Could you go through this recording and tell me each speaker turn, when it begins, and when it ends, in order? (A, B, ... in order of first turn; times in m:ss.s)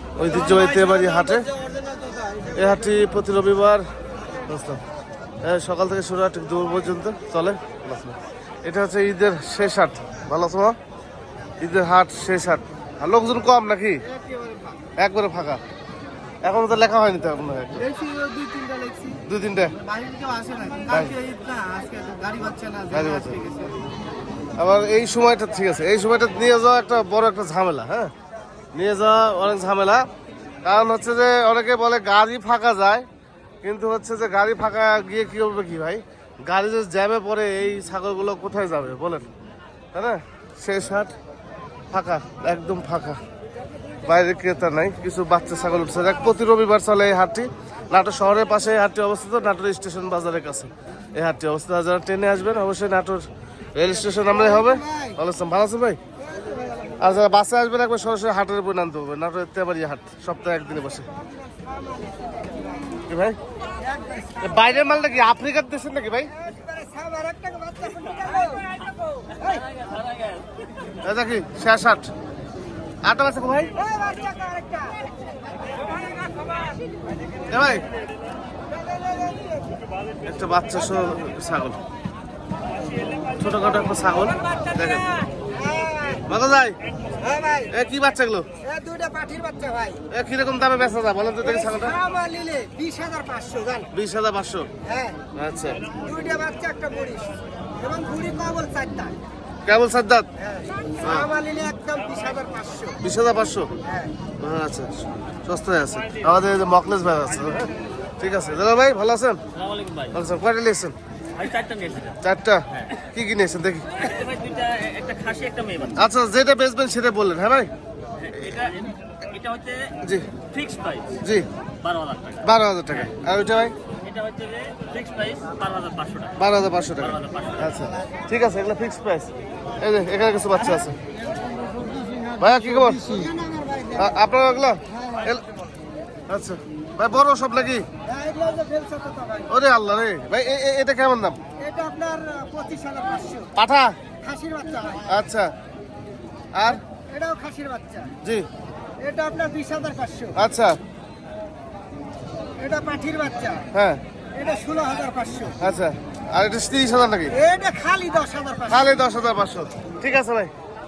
0:00.2-0:01.5 A
0:00.5-0:02.6 B
0:02.5-0:03.8 A
0:04.4-0:04.8 A
0:05.4-0:10.8 A
0:11.6-0:14.0 A
0:14.1-0:14.8 B
0:15.0-0:15.6 A
0:16.4-0:17.9 A
0:17.8-0:19.2 B
0:19.2-0:19.8 A
0:19.8-0:23.8 B
0:20.9-0:21.2 A
0:22.9-0:23.4 A
0:24.6-0:28.1 A
0:28.7-0:30.0 A
0:30.6-0:33.0 A
0:33.6-0:39.2 A
0:39.9-0:41.1 A
0:41.9-0:43.2 A
0:44.0-0:56.0 A
0:54.3-0:55.1 B
0:56.4-0:57.0 B
0:57.0-1:01.1 A
1:01.4-1:02.9 B
1:03.1-1:03.4 A
1:03.8-1:04.9 B
1:04.4-1:06.3 A
1:06.4-1:09.6 B
1:09.4-1:10.5 C
1:11.0-1:12.1 A
1:13.0-1:13.7 A
1:13.8-1:15.0 B
1:15.6-1:16.7 B
1:17.5-1:17.8 A
1:18.7-1:19.8 B
1:20.2-1:21.8 A
1:23.4-1:25.0 A
1:25.5-1:26.2 B
1:26.3-1:26.8 A
1:27.2-1:27.7 B
1:27.7-1:28.4 A
1:28.6-1:30.0 B
1:30.1-1:32.0 A
1:31.5-1:33.9 B
1:33.9-1:34.7 A
1:34.9-1:35.2 B
1:35.3-1:35.8 A
1:36.0-1:39.1 B
1:39.6-1:40.3 A
1:40.4-1:43.0 B
1:41.0-1:41.3 A
1:43.0-1:43.7 A
1:43.9-1:44.1 B
1:44.4-1:49.4 A
1:49.5-1:50.2 C
1:50.1-1:50.9 A
1:51.4-1:52.2 C
1:52.2-1:54.1 A
1:54.0-1:56.0 C
1:56.0-1:57.7 A
1:58.2-1:59.9 C
2:00.0-2:00.3 A
2:00.5-2:01.2 C
2:01.8-2:02.4 C
2:02.4-2:03.8 A
2:04.0-2:06.4 C
2:06.4-2:10.9 A
2:07.0-2:07.7 C
2:11.7-2:14.1 B
2:12.4-2:13.3 A
2:13.9-2:15.4 A
2:14.9-2:15.4 B
2:16.3-2:17.8 A
2:18.1-2:19.5 B
2:19.5-2:21.4 A
2:21.6-2:23.5 B
2:23.6-2:24.0 A
2:24.2-2:25.1 B
2:25.1-2:25.5 A
2:26.5-2:26.8 A
2:27.0-2:28.1 B
2:28.2-2:28.5 A
2:29.0-2:30.3 B
2:30.3-2:30.8 A
2:32.6-2:33.6 B
2:33.7-2:34.0 A
2:34.3-2:35.5 B
2:35.6-2:37.3 A
2:37.4-2:38.7 B
2:38.7-2:40.5 A